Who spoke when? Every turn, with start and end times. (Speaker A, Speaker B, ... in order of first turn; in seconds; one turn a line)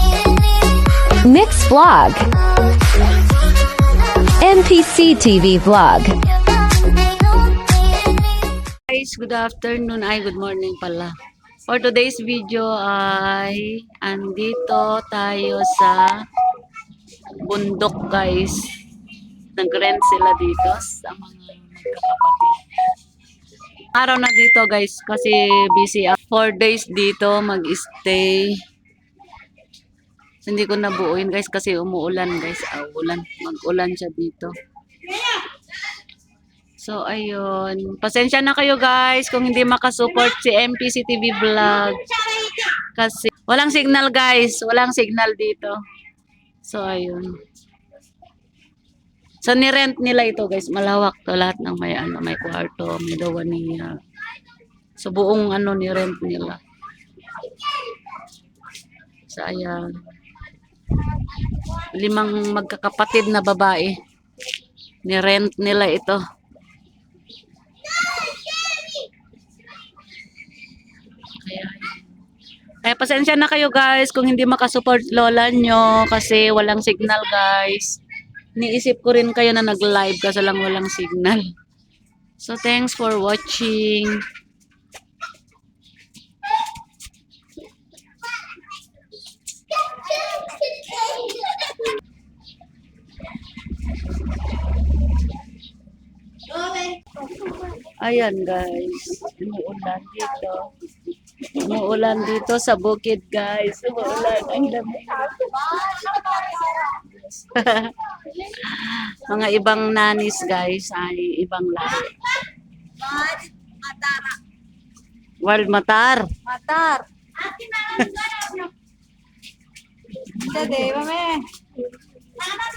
Speaker A: 1.2-2.3
Speaker A: 4.4-6.2
Speaker B: 8.9-11.1
Speaker B: 11.7-16.2
Speaker B: 17.4-18.7
Speaker B: 19.5-22.6
Speaker B: 23.9-28.6
Speaker B: 30.4-34.5
Speaker B: 36.8-45.8
Speaker B: 46.6-47.3
Speaker B: 49.4-54.0
Speaker B: 55.0-56.6
Speaker B: 59.3-59.9
Speaker B: 61.9-64.0
Speaker B: 65.0-66.2
Speaker B: 71.4-72.1
Speaker B: 72.8-78.0
Speaker B: 78.5-81.5
Speaker B: 82.4-84.2
Speaker B: 98.0-100.7
Speaker B: 101.5-112.2
Speaker C: 113.1-114.3
Speaker B: 115.4-116.6
Speaker C: 116.6-117.0
Speaker B: 117.8-118.4
Speaker B: 120.4-121.0
Speaker C: 120.7-121.5